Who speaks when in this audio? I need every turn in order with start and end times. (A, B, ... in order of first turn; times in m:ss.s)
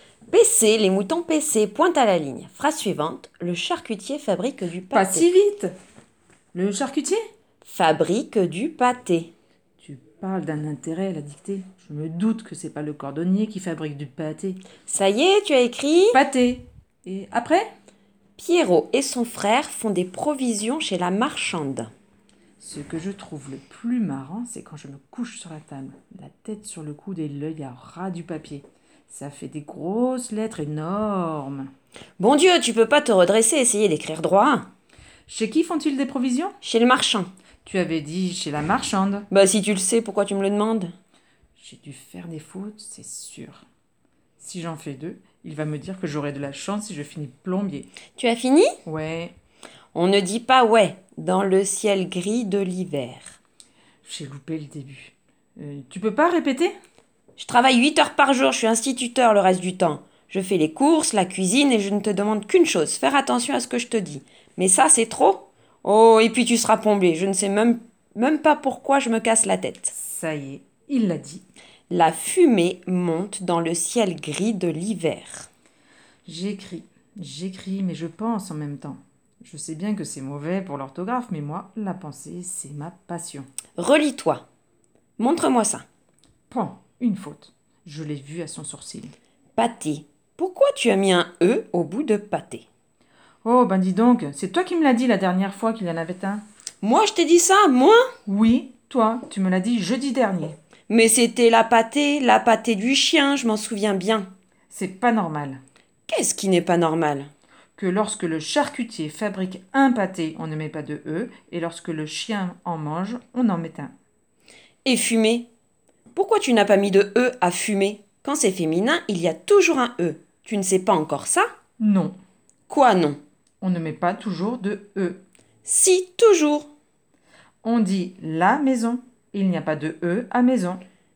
0:00.3-0:05.3 A
0:04.9-0:05.7 B
0:06.5-0:07.2 B
0:07.6-0:09.3 A
0:09.8-0:14.6 B
0:14.9-0:16.2 A
0:16.1-0:17.7 B
0:18.4-0:21.9 A
0:22.6-0:31.7 B
0:32.2-0:34.7 A
0:35.3-0:36.6 B
0:36.6-0:37.3 A
0:37.6-0:39.3 B
0:39.3-0:40.9 A
0:41.6-0:43.6 B
0:44.4-0:47.9 B
0:48.2-0:48.8 A
0:48.9-0:49.3 B
0:49.9-0:53.4 A
0:54.0-0:56.7 B
0:57.4-1:09.9 A
1:09.9-1:11.4 B
1:11.9-1:15.5 A
1:16.2-1:23.5 B
1:23.8-1:24.4 A
1:25.2-1:25.8 A
1:26.5-1:29.1 B
1:29.6-1:32.7 A
1:33.4-1:36.4 B
1:36.8-1:38.1 A
1:38.2-1:40.6 B
1:40.9-1:44.3 A
1:44.7-1:45.6 B
1:46.1-1:47.3 A
1:47.8-1:53.9 B
1:54.8-1:55.5 A
1:56.1-2:01.5 A
2:01.8-2:02.1 B
2:02.7-2:03.2 A
2:03.6-2:05.2 B
2:05.6-2:06.7 A
2:07.6-2:10.8 B